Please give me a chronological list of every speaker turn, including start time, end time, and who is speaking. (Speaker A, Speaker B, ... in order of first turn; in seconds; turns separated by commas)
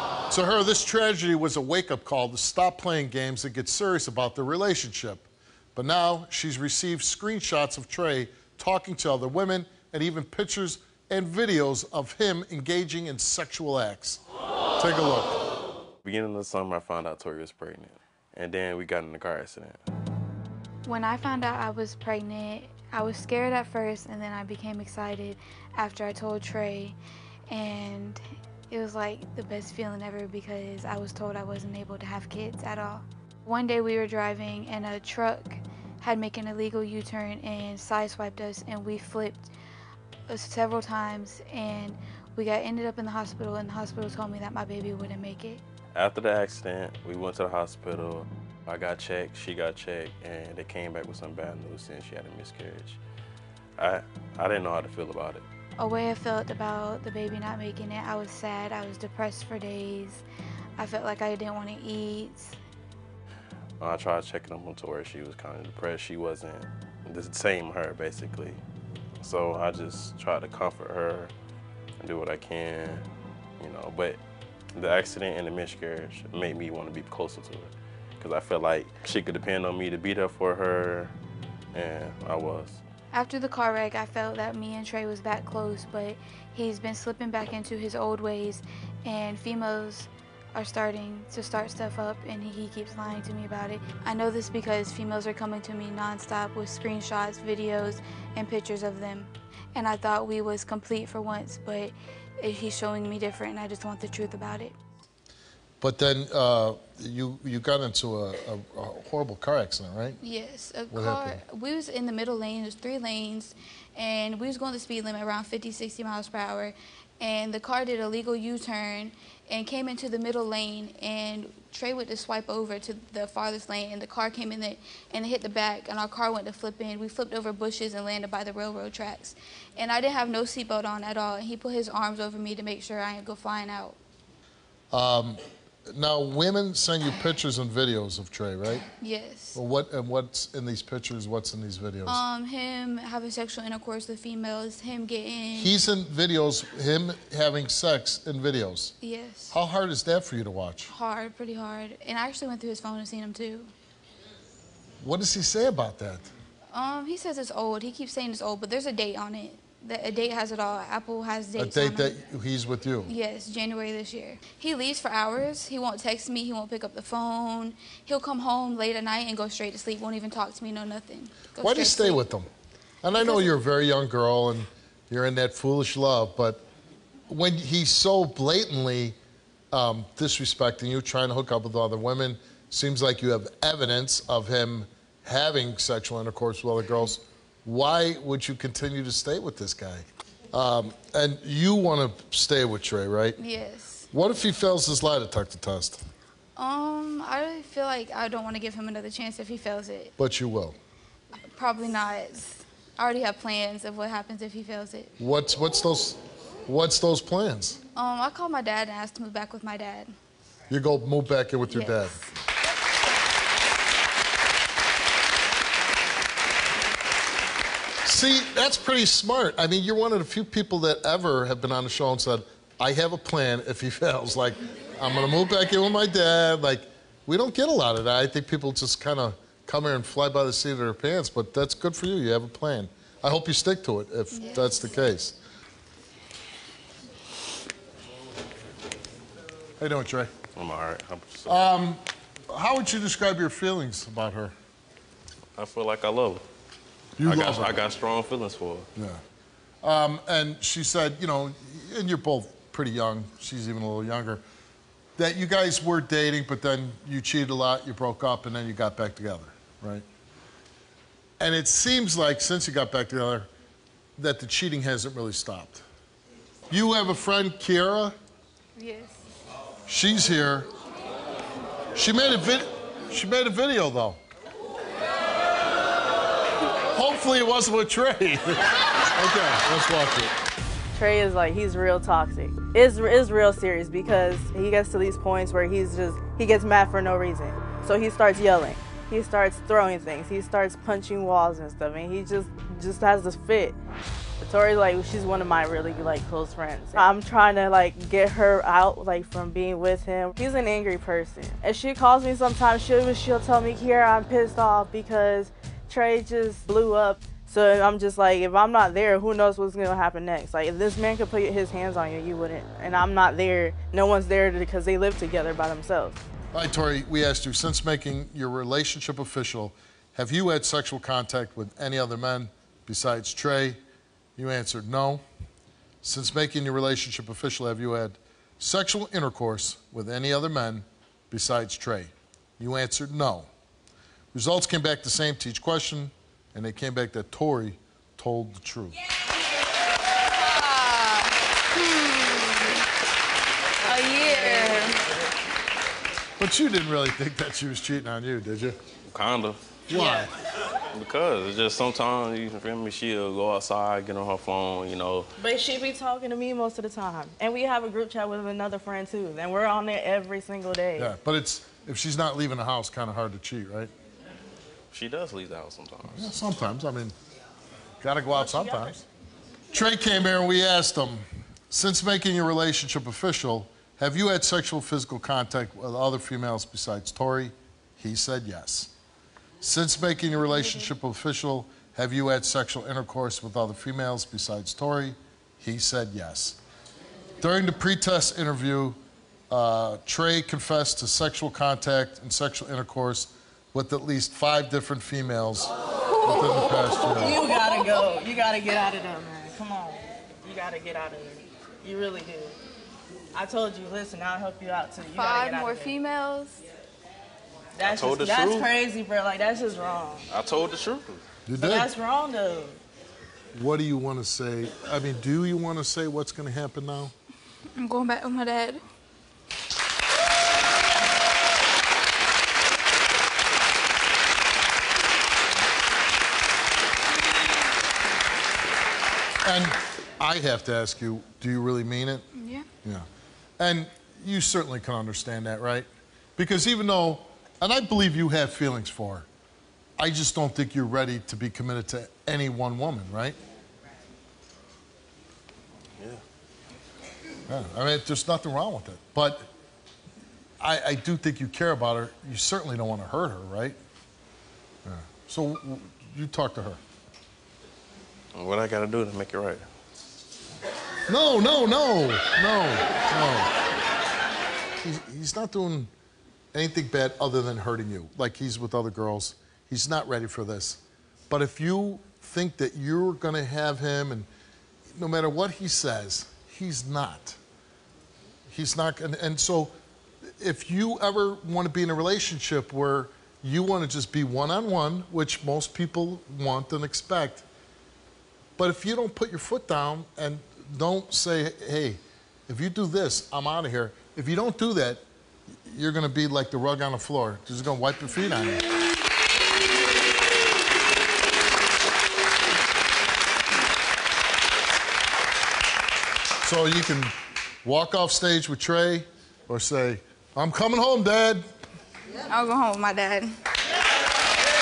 Speaker A: 0.3-14.2, Speaker A: 14.8-15.4, Speaker B: 16.0-19.8, Speaker C: 20.9-27.0, Speaker C: 27.5-39.5, Speaker C: 40.3-45.6, Speaker B: 46.0-53.0, Speaker B: 53.8-55.5, Speaker C: 55.8-60.2, Speaker C: 60.8-62.6, Speaker B: 63.8-68.6, Speaker B: 69.2-71.3, Speaker B: 72.0-73.1, Speaker B: 73.6-74.2, Speaker B: 74.8-81.1, Speaker B: 81.7-82.8, Speaker C: 83.1-104.8, Speaker A: 105.8-110.2, Speaker C: 110.2-134.0, Speaker A: 110.9-111.4, Speaker A: 134.9-138.8, Speaker C: 139.0-139.6, Speaker A: 139.5-142.2, Speaker C: 142.1-145.8, Speaker A: 145.6-148.9, Speaker C: 149.0-149.6, Speaker A: 149.5-150.9, Speaker C: 150.9-153.7, Speaker A: 155.0-156.3, Speaker C: 156.7-162.2, Speaker A: 161.6-163.1, Speaker C: 163.1-172.2, Speaker A: 171.6-172.5, Speaker A: 173.0-176.6, Speaker C: 173.2-173.5, Speaker A: 177.3-179.2, Speaker A: 179.7-193.4, Speaker C: 193.4-194.1, Speaker A: 194.1-196.0, Speaker C: 196.6-200.1, Speaker A: 200.2-200.8, Speaker C: 201.6-205.1, Speaker A: 205.2-207.8, Speaker C: 207.9-210.1, Speaker A: 210.7-212.2, Speaker C: 211.7-212.3, Speaker A: 218.0-235.4, Speaker C: 234.3-235.0, Speaker A: 239.8-240.3, Speaker B: 240.6-241.7, Speaker A: 241.5-244.5, Speaker B: 245.6-246.4, Speaker A: 247.2-247.7, Speaker B: 247.2-248.9, Speaker A: 249.0-249.2, Speaker A: 249.8-254.4, Speaker A: 255.2-260.1, Speaker A: 261.4-263.5, Speaker A: 264.2-265.8, Speaker A: 266.7-268.2, Speaker C: 268.8-269.2, Speaker A: 269.9-270.7, Speaker A: 271.9-274.2, Speaker A: 276.9-280.3, Speaker D: 280.9-293.8, Speaker D: 294.4-316.2, Speaker A: 316.5-323.8, Speaker A: 324.4-325.2, Speaker A: 326.0-333.5, Speaker A: 334.3-338.9, Speaker C: 340.3-342.8, Speaker C: 343.8-345.0, Speaker D: 344.2-345.1, Speaker A: 346.4-348.8, Speaker B: 349.1-349.8, Speaker A: 349.9-350.3, Speaker D: 349.9-350.3, Speaker B: 350.9-355.3, Speaker D: 355.4-361.1, Speaker A: 361.0-363.9, Speaker B: 364.9-366.4, Speaker A: 366.1-367.1, Speaker A: 368.0-369.0, Speaker D: 368.3-369.0, Speaker A: 369.7-378.9, Speaker A: 379.6-386.6, Speaker A: 387.4-397.4, Speaker C: 396.1-397.0, Speaker D: 397.0-402.6, Speaker D: 403.3-405.9, Speaker C: 405.1-406.6, Speaker D: 407.8-410.3, Speaker B: 407.8-408.7, Speaker B: 410.3-411.2, Speaker A: 411.5-411.9, Speaker D: 411.6-412.8, Speaker A: 413.6-417.1, Speaker C: 417.8-418.8, Speaker A: 429.4-432.2, Speaker C: 432.4-432.7, Speaker A: 433.6-439.3, Speaker A: 440.0-443.4, Speaker A: 447.5-449.5, Speaker A: 450.6-453.8, Speaker A: 454.9-456.8, Speaker B: 458.4-459.6, Speaker A: 461.1-463.5, Speaker A: 464.8-465.9, Speaker A: 466.5-474.3, Speaker A: 474.9-477.4, Speaker A: 478.5-479.7, Speaker A: 480.4-487.4, Speaker A: 488.6-495.0, Speaker A: 495.7-498.7, Speaker A: 506.4-511.4, Speaker C: 512.3-513.3